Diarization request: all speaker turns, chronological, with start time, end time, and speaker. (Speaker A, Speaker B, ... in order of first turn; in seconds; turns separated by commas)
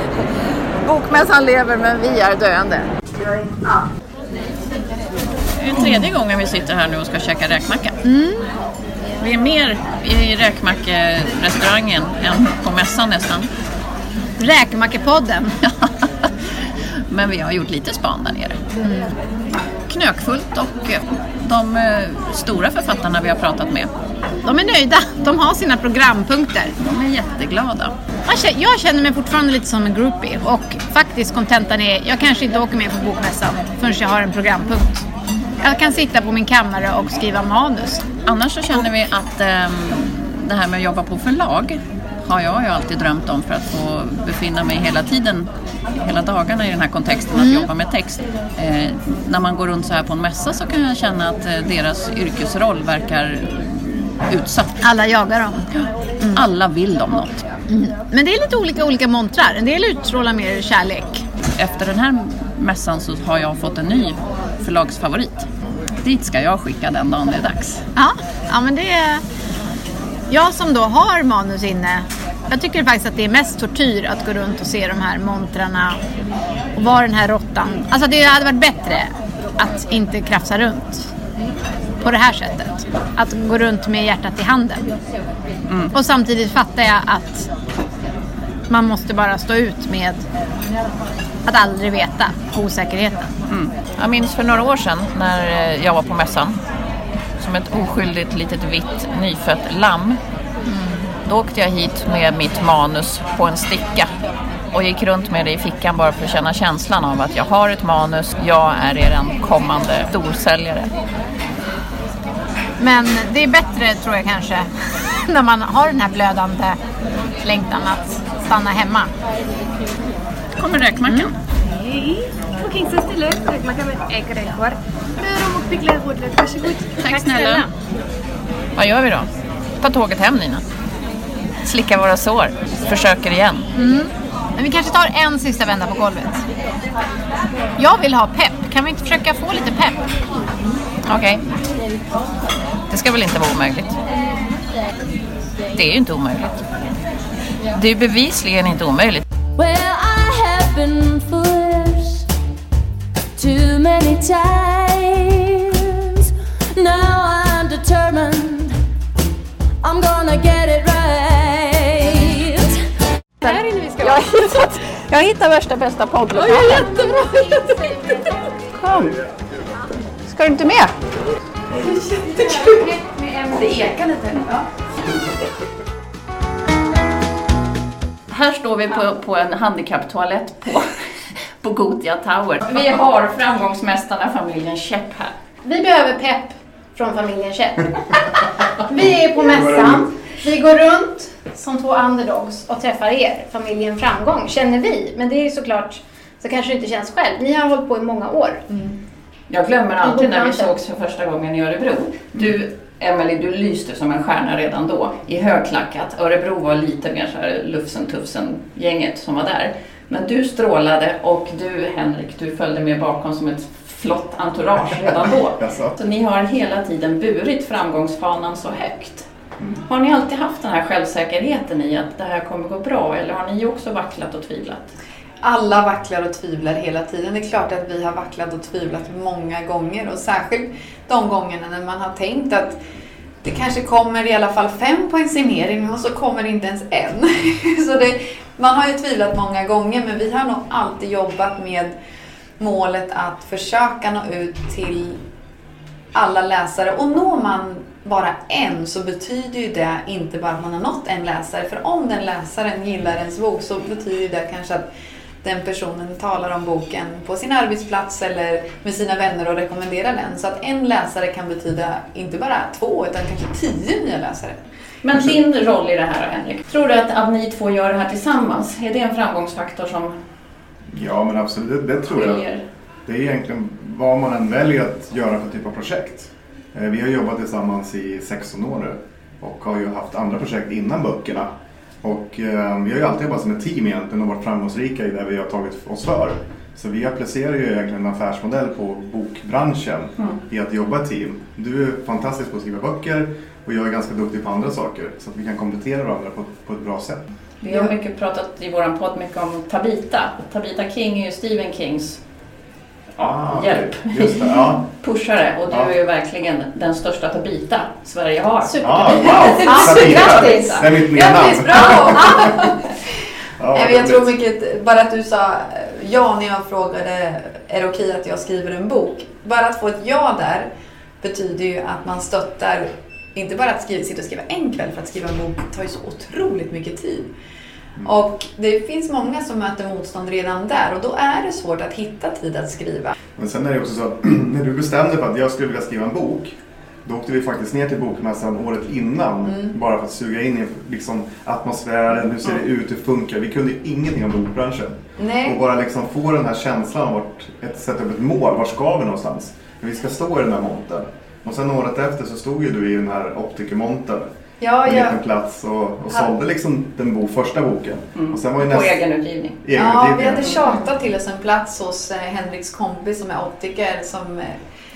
Speaker A: 0.8-2.9, Speaker A: 5.6-8.0, Speaker B: 8.0-8.5, Speaker A: 9.2-13.5, Speaker B: 14.4-15.6, Speaker A: 15.6-16.3, Speaker A: 17.1-18.6, Speaker B: 18.8-19.1, Speaker A: 19.9-23.9, Speaker B: 24.4-26.7, Speaker A: 26.8-27.9, Speaker B: 28.3-35.1, Speaker B: 35.6-38.0, Speaker A: 38.3-54.8, Speaker B: 47.4-47.7, Speaker B: 54.8-55.7, Speaker A: 56.3-57.4, Speaker B: 57.7-61.2, Speaker A: 61.6-65.5, Speaker A: 66.0-67.8, Speaker B: 68.0-69.2, Speaker B: 70.3-76.0, Speaker B: 76.8-81.1, Speaker B: 82.0-84.9, Speaker A: 85.7-85.9, Speaker B: 85.9-87.5, Speaker B: 88.7-90.2, Speaker B: 91.5-93.3, Speaker A: 93.5-96.6, Speaker A: 97.4-100.2, Speaker B: 100.7-101.0, Speaker A: 101.2-104.1, Speaker A: 104.7-110.9, Speaker B: 112.8-114.7, Speaker B: 115.2-116.8, Speaker B: 117.4-119.1, Speaker A: 120.5-121.3, Speaker C: 121.8-127.2, Speaker A: 127.0-127.7, Speaker B: 127.1-127.7, Speaker A: 128.8-129.3, Speaker A: 129.8-130.6, Speaker A: 131.6-133.7, Speaker B: 133.8-136.4, Speaker B: 137.8-140.0, Speaker A: 141.1-141.4, Speaker A: 142.9-144.0, Speaker A: 145.7-146.6, Speaker A: 147.7-149.2, Speaker D: 149.6-152.3, Speaker D: 153.4-158.8, Speaker D: 159.8-162.8, Speaker B: 163.4-164.6, Speaker A: 163.4-168.2, Speaker B: 166.4-168.3, Speaker A: 168.7-169.2, Speaker A: 170.3-170.9, Speaker E: 171.8-172.9, Speaker B: 172.1-173.9, Speaker E: 173.5-174.6, Speaker A: 178.3-181.0, Speaker A: 181.6-185.3, Speaker B: 185.6-188.2, Speaker B: 188.9-198.6, Speaker F: 189.6-190.0, Speaker A: 199.5-219.3, Speaker B: 200.0-200.7, Speaker F: 214.8-215.9, Speaker A: 219.9-224.9, Speaker E: 225.4-232.8, Speaker E: 233.4-241.9, Speaker E: 242.6-245.2, Speaker E: 246.1-254.9, Speaker E: 255.4-264.6, Speaker A: 265.0-270.2, Speaker F: 265.1-265.4, Speaker F: 270.9-272.5, Speaker A: 272.1-272.6, Speaker F: 273.1-281.5, Speaker F: 282.0-297.2, Speaker A: 297.6-302.2, Speaker A: 303.2-311.1, Speaker F: 303.2-304.8, Speaker F: 305.7-305.9, Speaker B: 308.6-310.9, Speaker F: 308.8-312.3, Speaker E: 311.1-312.8, Speaker B: 311.7-312.6, Speaker F: 313.6-314.4, Speaker E: 313.7-320.7, Speaker E: 321.2-327.3, Speaker E: 328.0-333.1, Speaker F: 333.4-354.3, Speaker E: 339.4-339.8, Speaker E: 345.2-345.6, Speaker E: 354.6-355.2, Speaker F: 354.8-359.0, Speaker E: 356.1-356.4, Speaker A: 358.1-359.6, Speaker F: 359.6-360.6, Speaker E: 359.7-364.6